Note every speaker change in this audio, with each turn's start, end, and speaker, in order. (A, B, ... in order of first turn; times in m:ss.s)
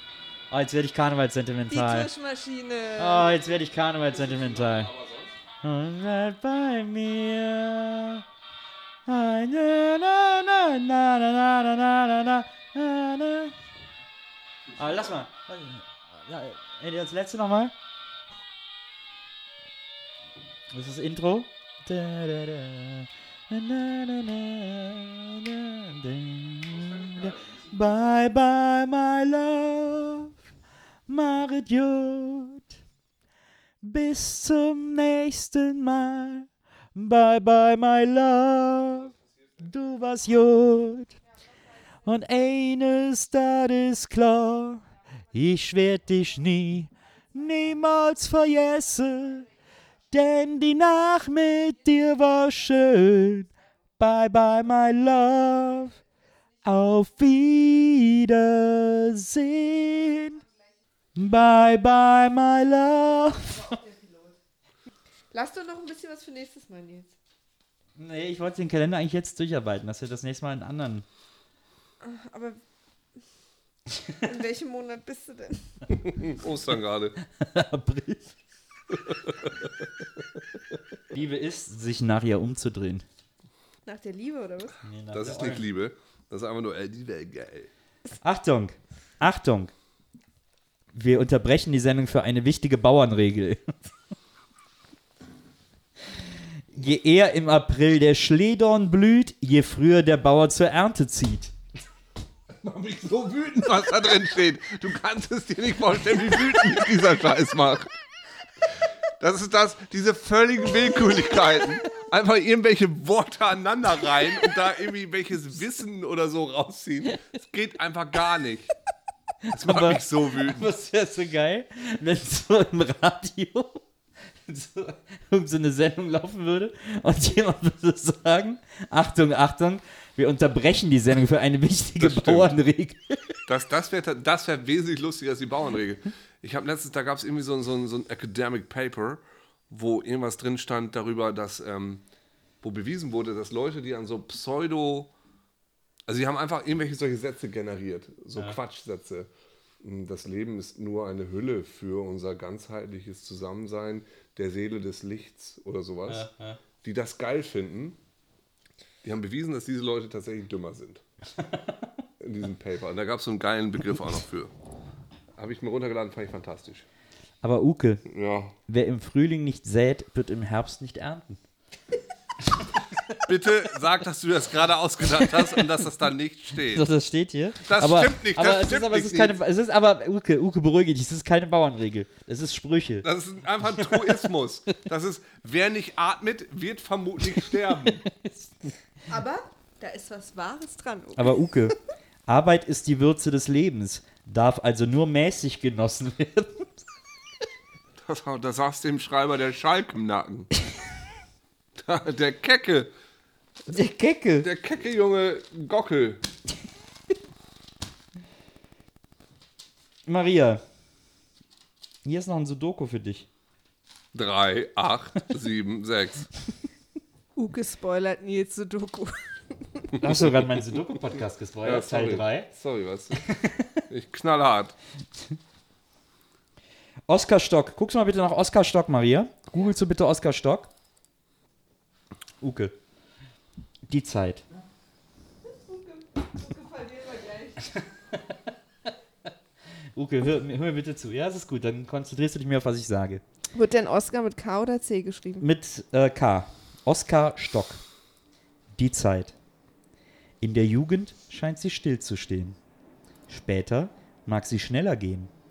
0:00.5-0:02.1 A
0:01.7-0:03.4 B
0:03.0-0:04.9 A
0:04.1-0:05.3 C
0:05.6-0:08.2 A
0:09.1-0:13.5 A
0:14.8-0:17.7 A
0:20.7-0:30.4 A
0:26.8-0:27.6 C
0:31.1-0:32.6 A
0:33.8-0:41.2 A
0:42.0-0:49.5 A
0:50.1-0:56.0 A
0:56.6-1:00.4 A
1:01.2-1:03.8 A
1:03.4-1:04.4 B
1:05.3-1:07.1 B
1:08.0-1:11.0 A
1:12.0-1:12.6 B
1:14.2-1:15.7 B
1:16.1-1:17.2 C
1:17.3-1:18.3 A
1:18.9-1:19.7 C
1:21.1-1:23.0 A
1:23.8-1:24.8 B
1:24.8-1:25.6 A
1:25.1-1:27.7 C
1:28.2-1:29.7 A
1:30.9-1:33.7 A
1:36.7-1:41.5 A
1:42.5-1:47.9 C
1:49.2-1:58.7 C
1:59.4-2:03.8 A
1:59.5-2:00.7 C
2:04.4-2:13.4 A
2:12.0-2:12.5 C
2:13.5-2:22.0 C
2:22.6-2:25.1 C
2:26.1-2:29.3 C
2:29.8-2:36.3 C
2:36.1-2:36.6 A
2:36.8-2:38.0 C
2:39.0-2:41.0 C
2:41.4-2:41.7 A
2:42.2-2:44.5 C
2:45.4-2:46.8 C
2:47.4-2:48.0 A
2:48.0-2:48.5 C
2:48.7-2:51.4 A
2:53.2-2:56.9 C
2:56.6-3:03.1 A
2:57.6-2:59.4 C
3:03.0-3:08.0 C
3:03.9-3:04.2 A
3:07.9-3:08.5 A
3:09.1-3:11.4 B
3:11.2-3:16.7 A
3:18.0-3:20.5 C
3:21.8-3:22.9 C
3:23.7-3:24.5 A
3:24.4-3:26.2 C
3:30.0-3:30.6 A
3:32.0-3:33.3 A
3:34.1-3:36.3 C
3:37.4-3:39.2 B
3:40.0-3:42.5 A
3:40.0-3:40.8 C
3:41.6-3:43.2 C
3:43.2-3:43.8 A
3:43.9-3:44.7 C
3:47.1-3:50.7 A
3:52.4-3:52.7 A
3:53.9-3:54.4 A
3:55.5-3:57.8 B
3:59.9-4:03.2 A
4:03.5-4:05.4 B
4:05.4-4:07.8 A
4:08.7-4:09.4 A
4:10.4-4:12.6 A
4:13.3-4:15.3 A